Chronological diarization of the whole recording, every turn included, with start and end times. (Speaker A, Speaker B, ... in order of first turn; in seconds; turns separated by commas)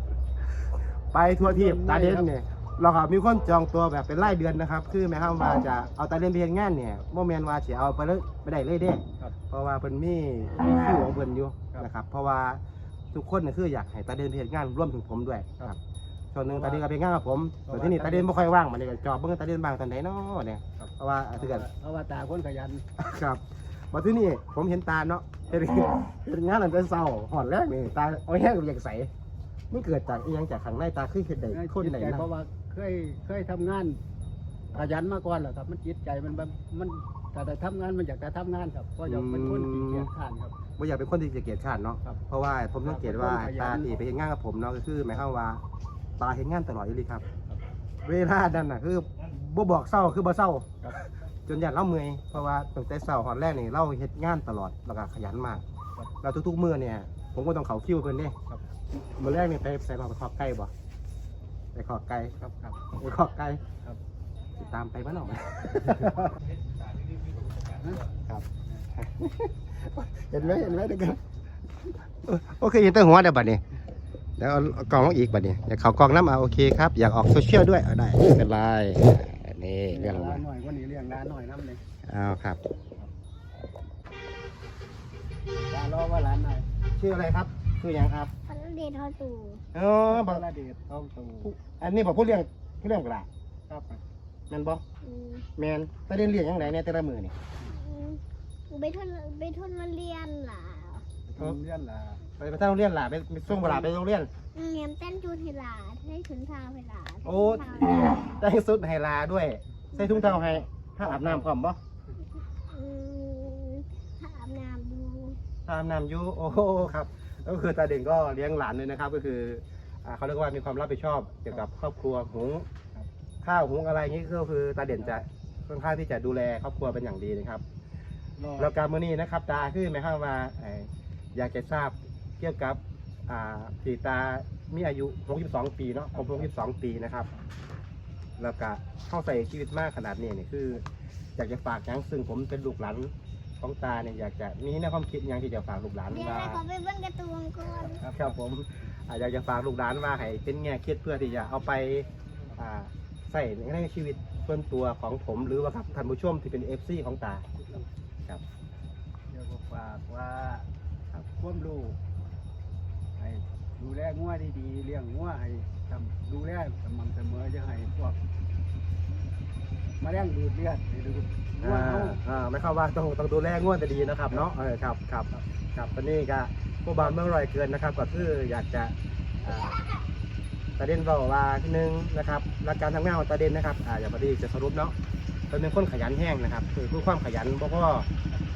Speaker A: 1.0-15.8, Speaker B: 1.4-2.3, Speaker A: 16.3-21.6, Speaker B: 16.4-16.8, Speaker B: 17.6-18.3, Speaker B: 20.8-22.8, Speaker A: 23.0-29.1, Speaker A: 29.7-32.3, Speaker B: 31.5-34.0, Speaker B: 34.7-40.5, Speaker A: 39.1-40.1, Speaker A: 40.8-45.6, Speaker B: 42.8-43.9, Speaker A: 46.2-47.2, Speaker A: 48.0-55.6, Speaker A: 56.2-58.4, Speaker A: 59.1-60.7, Speaker A: 61.7-62.3, Speaker B: 62.3-62.8, Speaker A: 62.9-63.6, Speaker A: 64.6-66.3, Speaker B: 67.8-68.0, Speaker A: 68.2-71.2, Speaker B: 70.3-71.0, Speaker A: 72.2-73.6, Speaker A: 74.4-80.4, Speaker B: 79.9-81.8, Speaker A: 82.1-82.6, Speaker B: 85.5-86.6, Speaker A: 87.0-88.3, Speaker C: 88.5-89.6, Speaker A: 89.7-90.4, Speaker B: 90.1-91.5, Speaker A: 91.4-93.3, Speaker B: 93.7-94.0, Speaker A: 94.5-94.8, Speaker C: 95.0-95.5, Speaker A: 95.5-97.3, Speaker C: 97.7-101.0, Speaker B: 101.3-102.2, Speaker A: 102.4-104.3, Speaker B: 103.5-103.9, Speaker C: 104.5-108.0, Speaker A: 107.2-111.8, Speaker C: 110.0-110.2, Speaker B: 111.0-111.4, Speaker C: 112.7-115.4, Speaker A: 115.6-122.7, Speaker A: 123.4-127.6, Speaker B: 128.4-128.7, Speaker A: 128.6-137.3, Speaker B: 136.1-136.5, Speaker A: 138.4-140.8, Speaker A: 141.3-146.6, Speaker C: 146.1-148.1, Speaker B: 147.9-148.3, Speaker A: 148.1-157.4, Speaker B: 159.3-160.7, Speaker B: 161.3-162.0, Speaker B: 163.2-168.2, Speaker B: 170.0-172.2, Speaker A: 171.6-179.8, Speaker A: 180.8-184.9, Speaker A: 185.5-188.1